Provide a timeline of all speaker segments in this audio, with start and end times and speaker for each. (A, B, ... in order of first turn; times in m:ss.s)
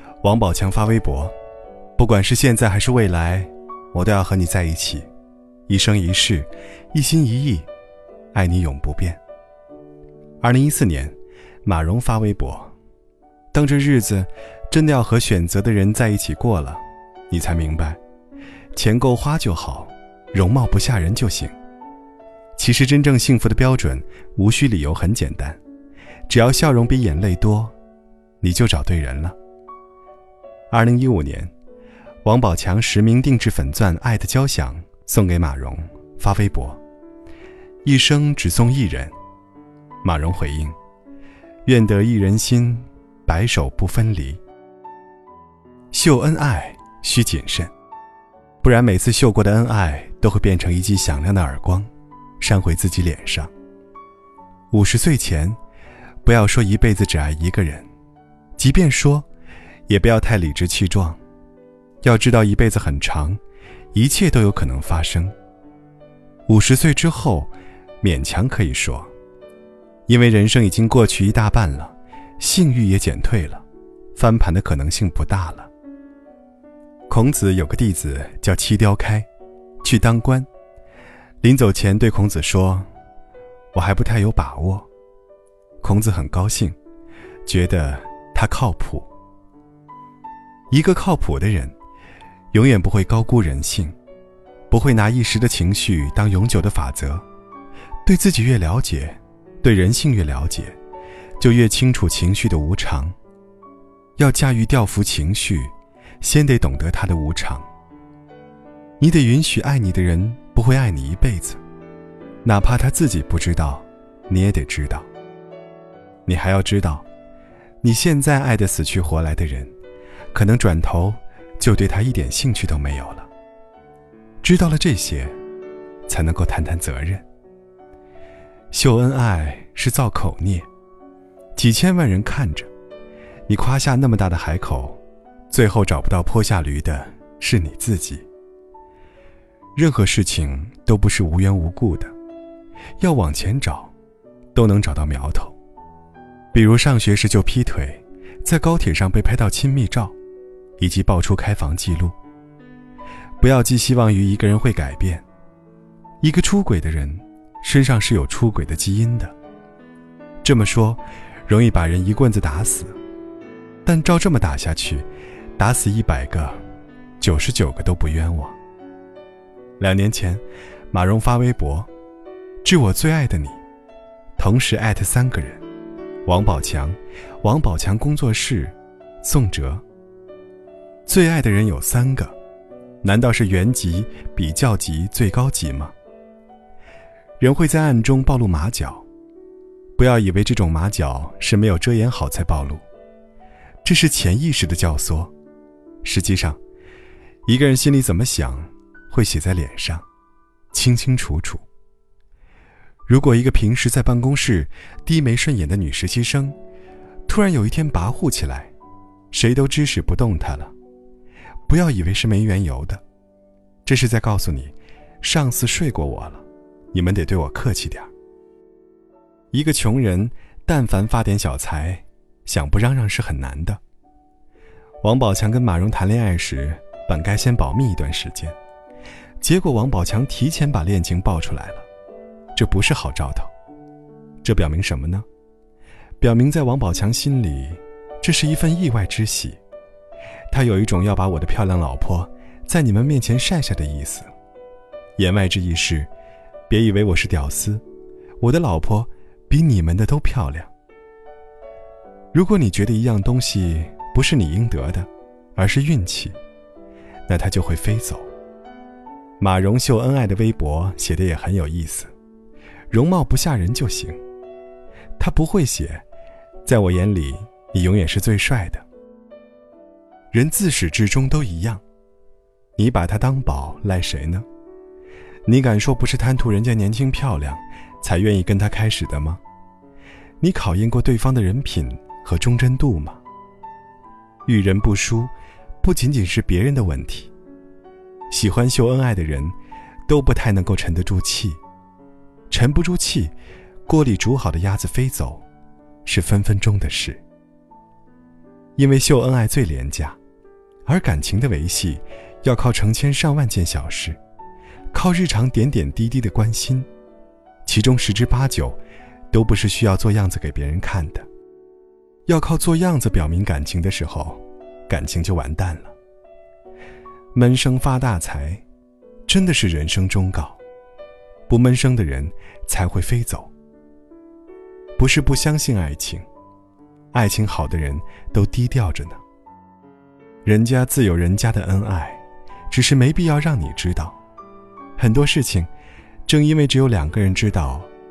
0:00.2-0:01.3 A
0:02.0-0:05.1 A
0:05.7-0:07.7 A
0:08.3-0:09.2 A
0:10.4-0:12.7 A
0:13.5-0:18.0 A
0:18.7-0:21.5 A
0:22.6-0:25.6 A
0:26.3-0:27.7 A
0:28.4-0:29.4 A
0:30.7-0:31.5 A
0:32.2-0:36.8 A
0:37.8-0:39.1 A
0:40.0-0:40.8 A
0:41.6-0:44.4 A
0:45.9-0:47.7 A
0:48.6-0:53.5 A
0:54.7-0:55.6 A
0:56.2-0:57.9 A
0:58.6-0:59.3 A
0:59.9-1:01.2 A
1:02.0-1:03.4 A
1:03.9-1:05.3 A
1:06.5-1:09.1 A
1:10.1-1:15.7 A
1:17.1-1:19.3 A
1:19.8-1:20.5 A
1:21.4-1:22.9 A
1:23.7-1:24.9 A
1:25.8-1:26.8 A
1:27.4-1:29.1 A
1:30.7-1:31.7 A
1:32.5-1:33.9 A
1:34.7-1:37.2 A
1:38.0-1:40.8 A
1:41.4-1:43.2 A
1:44.2-1:47.7 A
1:49.0-1:51.6 A
1:52.4-1:55.1 A
1:56.2-1:57.0 A
1:57.8-1:59.7 A
2:00.3-2:03.3 A
2:04.4-2:05.3 A
2:06.1-2:07.2 A
2:08.7-2:10.7 A
2:11.6-2:12.7 A
2:13.5-2:18.2 A
2:19.7-2:22.1 A
2:23.0-2:23.9 A
2:24.5-2:25.6 A
2:26.5-2:30.2 A
2:30.8-2:32.2 A
2:33.4-2:35.2 A
2:36.2-2:39.3 A
2:40.4-2:43.0 A
2:43.8-2:46.6 A
2:47.2-2:48.6 A
2:49.8-2:51.9 A
2:52.6-2:53.6 A
2:54.4-2:55.6 A
2:56.2-2:59.8 A
3:01.0-3:02.4 A
3:03.0-3:05.9 A
3:07.4-3:09.1 A
3:10.0-3:12.8 A
3:13.8-3:15.3 A
3:16.0-3:16.6 A
3:17.4-3:20.0 A
3:20.7-3:21.6 A
3:23.1-3:26.6 A
3:27.2-3:28.7 A
3:29.3-3:30.7 A
3:31.7-3:33.0 A
3:33.8-3:38.1 A
3:39.5-3:43.8 A
3:45.0-3:48.6 A
3:49.4-3:51.9 A
3:52.5-3:53.5 A
3:54.4-3:55.2 A
3:56.2-3:59.6 A
4:00.5-4:04.3 A
4:05.2-4:06.1 A
4:06.7-4:07.8 A
4:08.4-4:10.7 A
4:12.3-4:16.4 A
4:17.3-4:18.3 A
4:19.4-4:22.1 A
4:22.9-4:24.2 A
4:25.2-4:26.0 A
4:26.6-4:28.8 A
4:30.3-4:31.8 A
4:32.8-4:34.4 A
4:35.4-4:39.4 A
4:40.4-4:43.2 A
4:44.4-4:47.3 A
4:48.3-4:49.5 A
4:50.1-4:51.6 A
4:52.5-4:53.3 A
4:53.8-4:55.4 A
4:56.0-4:57.2 A
4:58.8-5:00.2 A
5:00.8-5:04.2 A
5:04.9-5:06.9 A
5:07.6-5:08.8 A
5:09.3-5:11.3 A
5:12.2-5:15.9 A
5:17.3-5:18.6 A
5:19.2-5:20.6 A
5:21.5-5:23.5 A
5:25.0-5:26.2 A
5:27.1-5:29.2 A
5:30.4-5:34.2 A
5:35.0-5:35.7 A
5:36.3-5:37.9 A